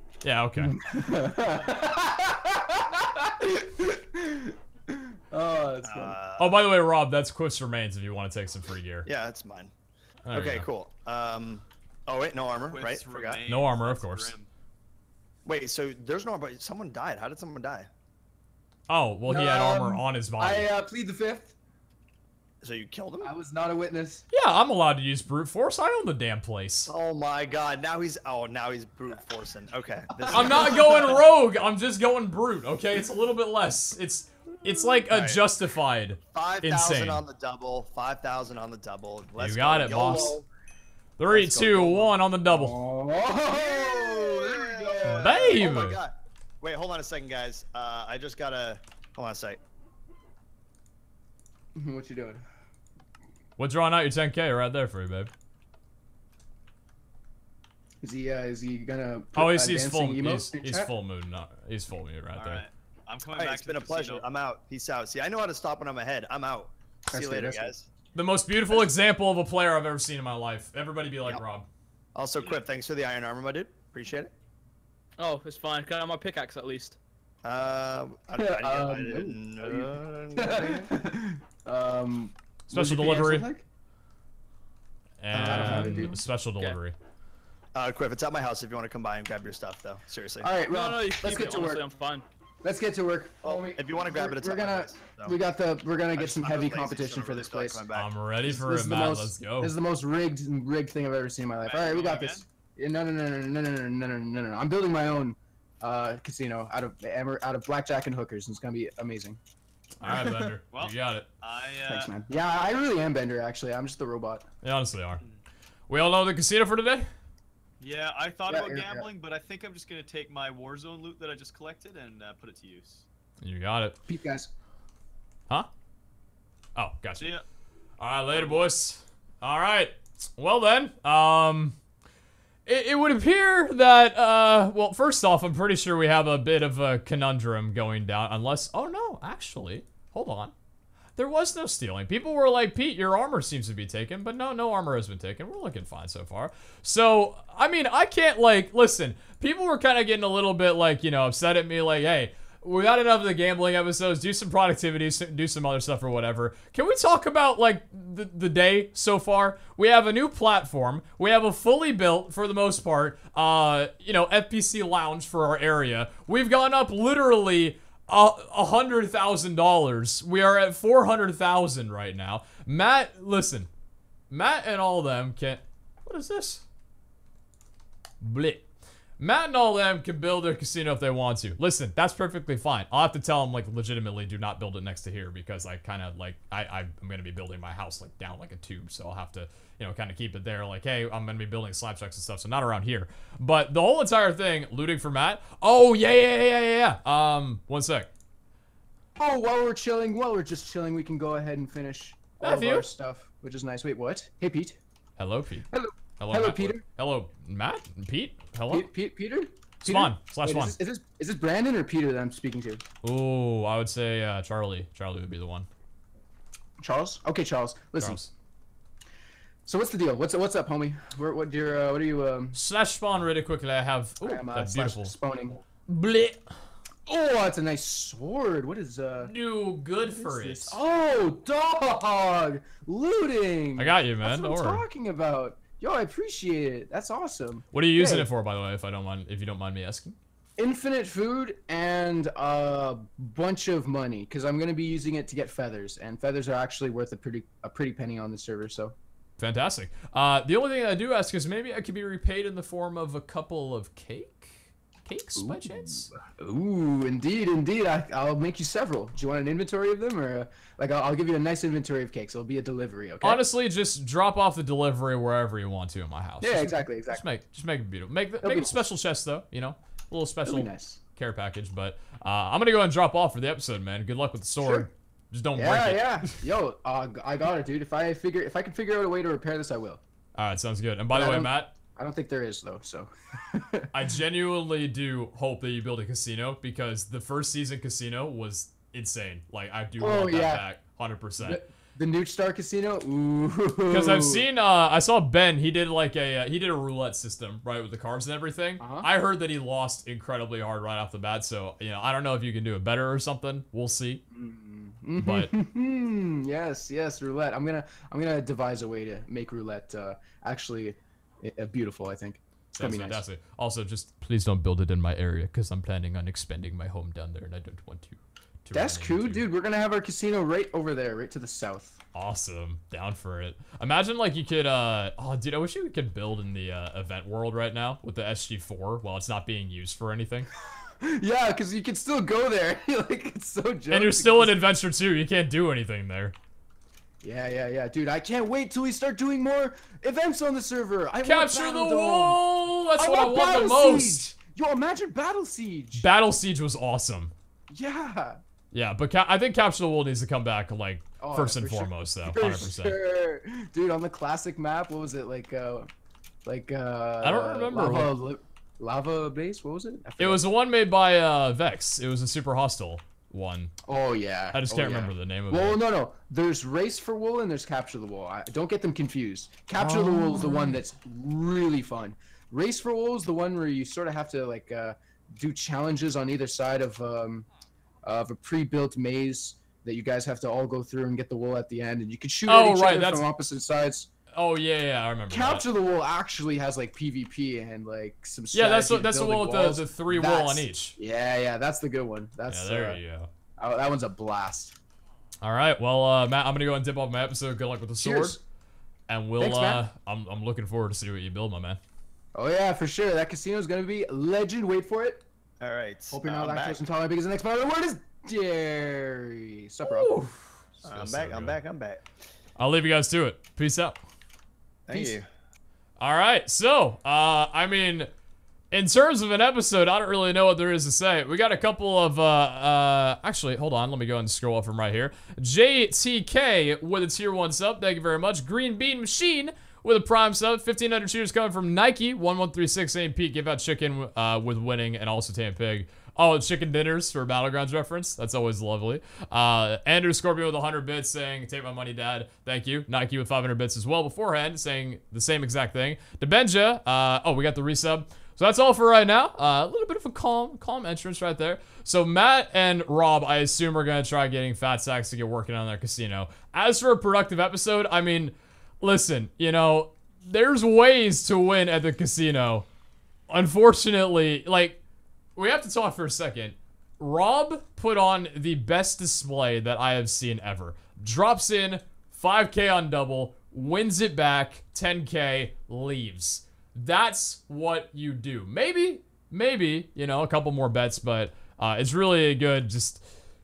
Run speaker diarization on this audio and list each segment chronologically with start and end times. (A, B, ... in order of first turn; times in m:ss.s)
0:00.2-0:00.8 A
0:00.6-0:06.2 B
0:05.8-0:06.6 C
0:06.4-0:09.1 A
0:09.0-0:09.7 C
0:10.2-0:10.7 A
0:10.3-0:13.5 C
0:12.7-0:14.5 D
0:13.4-0:14.3 A
0:15.4-0:17.9 C
0:18.9-0:20.7 A
0:19.2-0:21.5 B
0:22.6-0:23.3 C
0:23.2-0:24.2 B
0:24.3-0:26.9 A
0:26.9-0:31.2 C
0:30.1-0:31.2 B
0:30.3-0:37.2 A
0:35.1-0:35.4 C
0:36.3-0:40.5 C
0:39.4-0:40.4 A
0:41.2-0:42.8 A
0:41.3-0:42.1 C
0:42.4-0:45.7 B
0:43.4-0:49.6 C
0:45.0-0:46.0 A
0:51.7-0:52.4 B
0:53.6-0:55.3 A
0:58.0-1:00.9 B
0:59.3-1:02.6 A
1:02.3-1:04.3 D
1:03.3-1:07.8 C
1:07.1-1:07.8 B
1:08.1-1:11.7 A
1:12.1-1:14.3 C
1:15.2-1:17.0 E
1:17.4-1:20.9 C
1:18.3-1:23.6 B
1:22.7-1:23.5 A
1:25.2-1:26.9 A
1:25.3-1:26.2 B
1:25.4-1:26.1 C
1:27.7-1:30.5 C
1:30.4-1:31.8 B
1:30.7-1:32.2 E
1:32.6-1:37.9 B
1:33.4-1:35.4 C
1:36.1-1:38.1 C
1:37.9-1:39.8 A
1:38.4-1:49.4 B
1:41.6-1:42.4 D
1:50.0-1:51.3 A
1:50.0-1:50.5 B
1:50.7-1:52.1 D
1:51.8-1:54.4 B
1:54.6-1:55.2 A
1:55.9-1:57.1 A
1:57.8-2:03.0 D
1:58.5-1:59.1 B
2:03.4-2:04.0 A
2:04.1-2:04.5 B
2:06.8-2:07.4 A
2:07.2-2:07.4 D
2:08.0-2:11.8 A
2:08.3-2:08.6 D
2:12.6-2:20.5 A
2:21.2-2:53.7 A
2:54.3-2:56.6 A
2:58.2-2:58.6 A
2:59.2-3:18.1 A
3:19.2-3:24.8 B
3:22.4-3:22.9 A
3:25.2-3:25.7 A
3:25.7-3:26.8 B
3:26.2-3:28.9 A
3:28.7-3:32.8 B
3:29.8-3:30.8 A
3:33.0-3:35.7 A
3:36.8-3:38.2 B
3:38.0-3:38.3 A
3:39.6-3:42.6 B
3:42.5-3:45.1 A
3:44.2-3:45.6 B
3:45.9-3:46.5 A
3:47.1-3:49.3 B
3:49.2-3:50.8 A
3:50.0-3:58.3 B
3:53.8-3:54.8 A
3:57.7-4:00.2 A
4:00.6-4:08.9 B
4:09.4-4:16.1 A
4:15.4-4:23.4 B
4:23.2-4:36.4 A
4:26.4-4:27.2 B
4:28.4-4:28.8 B
4:30.4-4:31.0 B
4:34.6-4:34.9 B
4:35.6-4:40.0 B
4:40.4-4:41.7 A
4:41.1-4:43.9 B
4:43.9-4:51.6 A
4:50.0-4:50.6 B
4:51.4-4:54.4 B
4:53.9-5:04.2 A
4:58.8-4:59.1 B
5:04.3-5:13.2 B
5:05.2-5:05.5 A
5:12.8-5:19.5 A
5:18.7-5:22.0 B
5:22.1-5:30.5 A
5:31.0-5:34.6 B
5:33.9-5:36.3 A
5:37.2-5:42.4 B
5:41.2-5:44.3 A
5:43.0-5:46.1 B
5:45.9-5:47.3 A
5:47.7-5:48.4 B
5:48.7-5:53.0 A
5:51.2-5:55.9 B
5:56.4-6:00.4 B
5:57.2-5:58.1 A
6:00.2-6:03.7 A
6:03.9-6:17.4 B
6:04.5-6:05.8 A
6:09.8-6:10.8 A
6:18.0-6:24.1 B
6:22.4-6:23.3 A
6:24.3-6:25.6 A
6:25.3-6:33.0 B
6:28.5-6:30.9 A
6:32.5-6:33.3 A
6:33.6-6:34.8 B
6:35.4-6:38.4 A
6:38.0-6:38.4 B
6:39.1-6:41.8 A
6:39.4-6:39.8 B
6:42.4-6:45.2 B
6:45.6-6:46.8 C
6:46.1-6:50.1 B
6:49.8-6:51.6 A
6:50.8-6:52.0 C
6:52.6-6:54.0 A
6:54.9-6:55.3 C
6:56.0-6:58.1 A
6:58.7-7:42.6 A
7:43.3-7:44.8 A
7:45.4-8:03.0 A